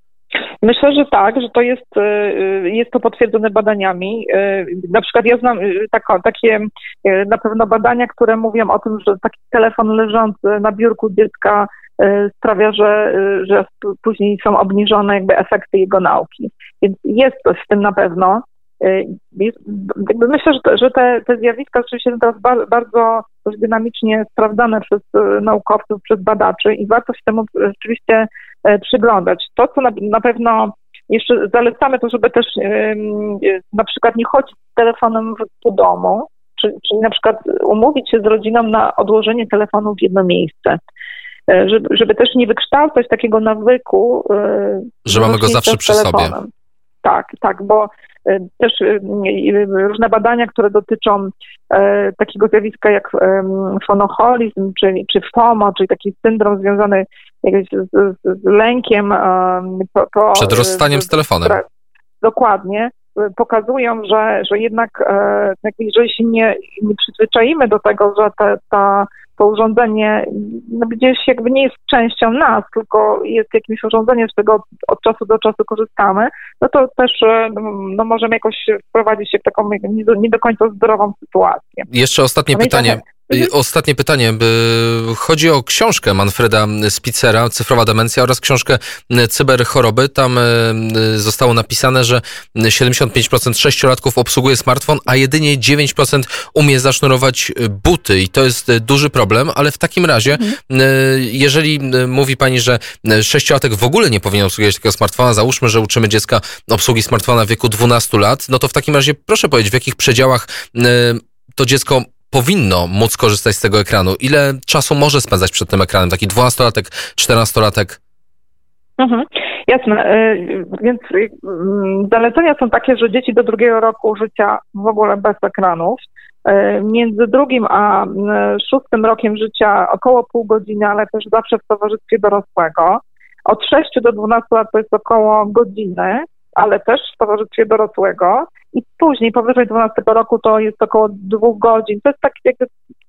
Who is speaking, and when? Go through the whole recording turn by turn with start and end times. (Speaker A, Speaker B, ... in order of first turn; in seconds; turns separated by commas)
Speaker A: 0.6-40.8, Speaker A: 41.5-46.5, Speaker B: 45.0-46.4, Speaker A: 47.0-61.6, Speaker B: 60.3-61.6, Speaker A: 62.2-81.9, Speaker B: 81.9-118.0, Speaker A: 82.5-83.5, Speaker A: 119.0-142.7